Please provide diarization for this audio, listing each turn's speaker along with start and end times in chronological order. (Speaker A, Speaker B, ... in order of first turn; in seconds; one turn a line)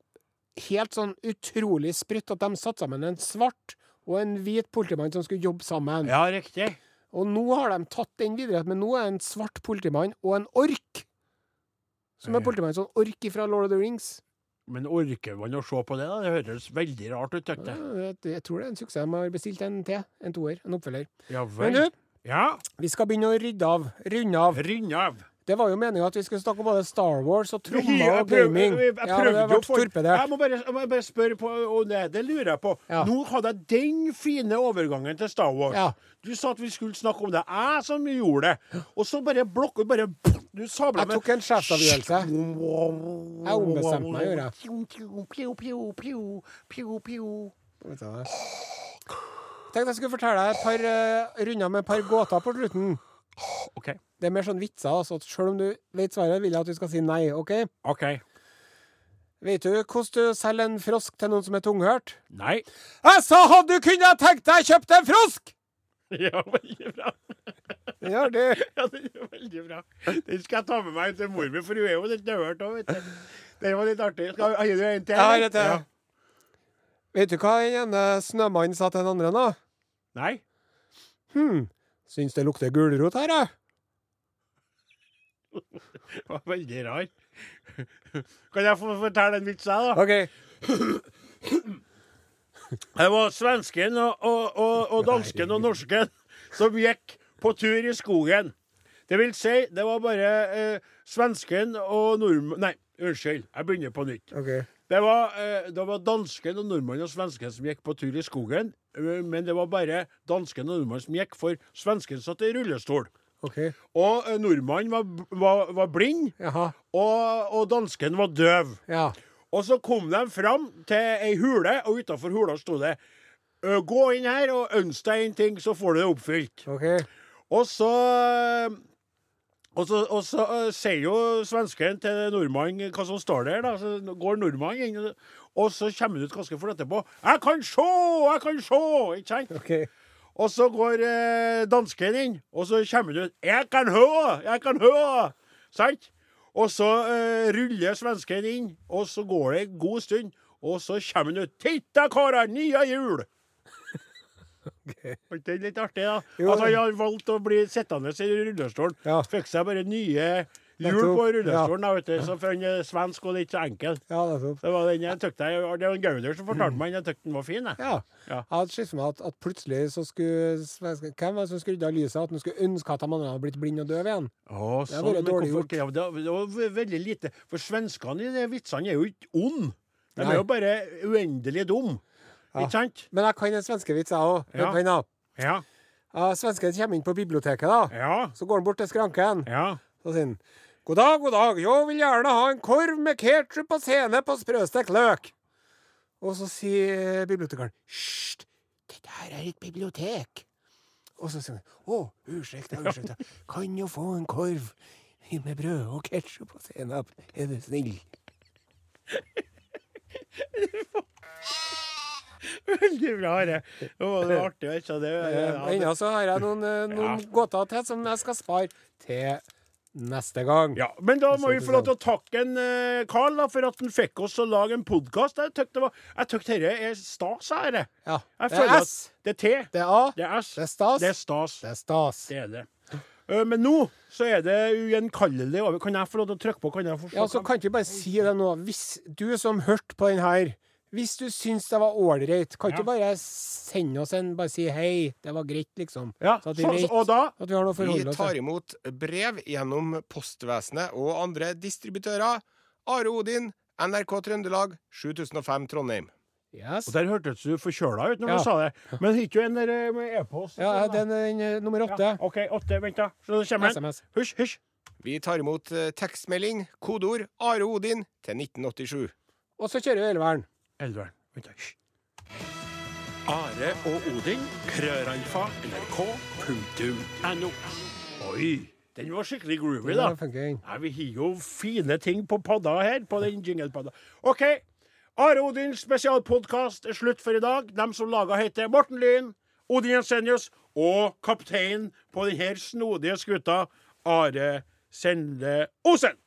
Speaker A: 0.6-6.1
Speaker B: 6.0-6.8
Speaker A: 7.1-11.1
Speaker A: 12.2-14.2
Speaker B: 12.2-12.5
Speaker B: 14.7-17.8
Speaker A: 17.6-21.9
Speaker B: 21.3-22.6
Speaker A: 22.8-24.6
Speaker B: 24.5-25.2
Speaker A: 25.4-30.3
Speaker B: 27.7-47.5
Speaker A: 35.7-36.0
Speaker A: 41.0-42.3
Speaker A: 43.4-44.5
Speaker A: 47.8-48.3
Speaker A: 49.7-53.0
Speaker B: 53.4-54.0
Speaker A: 54.2-57.7
Speaker B: 57.8-58.2
Speaker A: 59.4-62.2
Speaker B: 62.3-62.6
Speaker A: 63.0-65.5
Speaker B: 66.1-67.3
Speaker A: 68.0-68.6
Speaker B: 68.5-75.8
Speaker A: 75.1-75.8
Speaker A: 77.1-79.6
Speaker B: 80.1-80.4
Speaker A: 81.3-83.5
Speaker B: 85.6-87.1
Speaker B: 87.7-90.0
Speaker A: 89.9-90.3
Speaker B: 90.6-91.0
Speaker B: 92.9-98.5
Speaker B: 99.1-104.3
Speaker A: 104.3-104.7
Speaker B: 104.9-113.1
Speaker A: 113.4-113.8
Speaker B: 113.9-116.3
Speaker A: 116.4-116.7
Speaker B: 116.9-118.8
Speaker A: 118.9-119.1
Speaker B: 119.5-123.0
Speaker B: 123.6-126.7
Speaker A: 126.7-127.1
Speaker B: 127.5-128.8
Speaker B: 129.7-139.5
Speaker A: 139.5-139.9
Speaker B: 140.3-153.3
Speaker A: 154.8-155.2
Speaker B: 155.3-164.0
Speaker A: 156.4-156.8
Speaker A: 160.8-161.7
Speaker A: 164.1-164.6
Speaker B: 164.6-168.4
Speaker A: 167.8-174.3
Speaker B: 174.5-182.0
Speaker A: 174.9-175.8
Speaker A: 180.2-180.4
Speaker B: 182.5-183.1
Speaker A: 182.5-185.1
Speaker B: 184.5-184.8
Speaker B: 185.4-185.6
Speaker A: 186.1-195.3
Speaker B: 187.9-188.3
Speaker B: 189.4-189.8
Speaker A: 196.2-200.4
Speaker A: 201.2-208.0
Speaker B: 210.4-211.0
Speaker B: 212.4-215.9
Speaker A: 215.2-219.4
Speaker B: 216.9-217.2
Speaker A: 219.9-220.8
Speaker B: 220.7-231.6
Speaker A: 221.3-221.9
Speaker A: 228.0-229.1
Speaker A: 229.7-231.1
Speaker A: 231.6-232.3
Speaker B: 232.3-232.7
Speaker B: 233.3-237.5
Speaker A: 237.1-248.3
Speaker B: 246.2-247.3
Speaker C: 247.8-256.1
Speaker A: 256.5-256.9
Speaker B: 256.9-261.0
Speaker A: 260.6-262.2
Speaker B: 261.9-264.6
Speaker A: 263.6-264.0
Speaker C: 265.0-269.1
Speaker A: 269.6-270.4
Speaker B: 270.8-271.7
Speaker B: 273.3-284.6
Speaker A: 279.8-280.6
Speaker B: 285.2-296.2